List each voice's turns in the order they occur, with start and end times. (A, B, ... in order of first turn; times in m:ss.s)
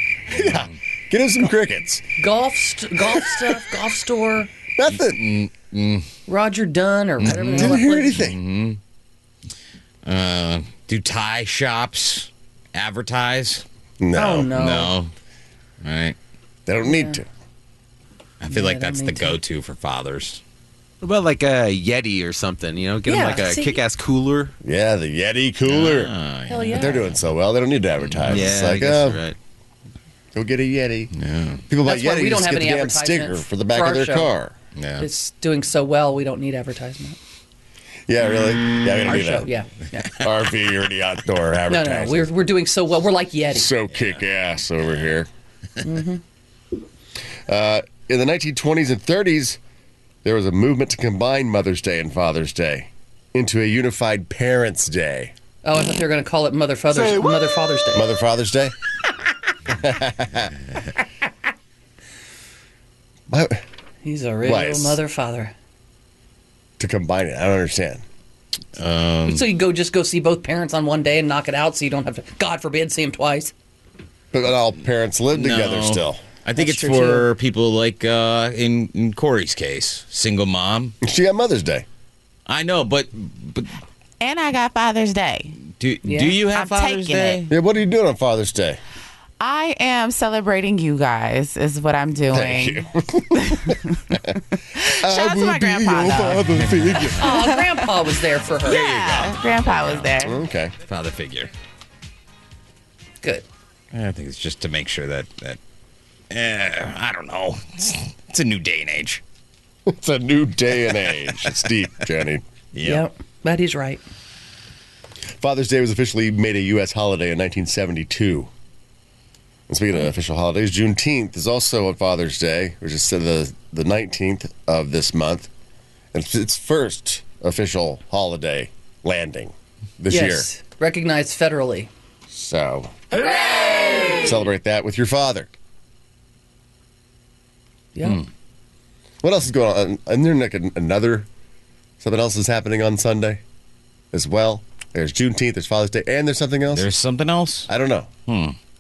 0:00.3-0:02.0 A
0:00.4-0:00.7 B
0:02.2-0:04.5 C
0:03.0-0:03.5 A
0:04.8-0:05.2 A
0:04.9-0:06.1 B
0:06.3-0:08.2 C
0:07.2-0:08.8 B
0:07.2-0:08.4 A
0:10.0-0:13.6 B
0:14.0-0:14.5 A
0:14.1-0:14.9 C
0:14.5-0:15.1 B
0:15.8-0:16.2 B
0:16.6-0:17.3 A
0:16.9-0:17.2 C
0:18.4-0:20.4 B
0:18.5-0:19.4 C
0:21.0-0:24.5 D
0:23.0-0:23.8 C
0:24.6-0:26.1 A
0:25.7-0:27.0 B
0:26.5-0:27.0 C
0:26.7-0:29.2 A
0:28.1-0:28.5 B
0:28.3-0:29.4 D
0:30.3-0:31.1 A
0:31.1-0:31.6 B
0:31.7-0:34.5 A
0:31.8-0:34.3 C
0:34.8-0:35.1 B
0:35.0-0:37.2 C
0:38.1-0:39.5 A
0:39.0-0:40.1 C
0:40.2-0:42.3 A
0:41.7-0:43.7 C
0:43.5-0:45.3 A
0:45.8-0:46.2 C
0:47.5-0:49.6 A
0:50.2-0:55.3 A
0:55.6-0:58.1 C
0:57.9-0:58.7 A
0:59.7-1:00.5 A
1:03.3-1:03.6 A
1:04.0-1:05.5 C
1:04.4-1:05.0 A
1:06.8-1:08.0 A
1:08.8-1:09.4 B
1:09.3-1:13.5 C
1:14.3-1:16.2 A
1:15.3-1:20.9 B
1:16.6-1:17.3 C
1:21.0-1:21.8 A
1:22.5-1:23.7 B
1:24.2-1:25.6 E
1:25.7-1:27.5 B
1:26.0-1:26.4 C
1:26.5-1:27.5 E
1:27.5-1:28.8 A
1:29.4-1:32.8 E
1:32.3-1:33.8 A
1:33.3-1:33.8 E
1:34.9-1:36.5 E
1:35.0-1:37.2 A
1:36.7-1:37.0 B
1:37.2-1:38.9 C
1:37.2-1:37.8 E
1:38.6-1:40.1 B
1:38.6-1:40.4 E
1:40.2-1:40.7 A
1:40.8-1:41.5 B
1:43.9-1:45.6 B
1:46.3-1:49.2 B
1:49.8-1:52.4 A
1:52.7-1:53.0 B
1:52.8-1:54.0 C
1:55.4-1:58.5 A
1:59.7-2:05.5 A
2:06.1-2:10.5 A
2:10.1-2:11.9 C
2:12.3-2:12.9 A
2:14.2-2:15.5 A
2:18.0-2:18.2 C
2:19.2-2:21.3 A
2:22.0-2:23.4 A
2:24.1-2:26.9 A
2:26.7-2:27.7 B
2:27.7-2:28.1 A
2:28.3-2:28.6 B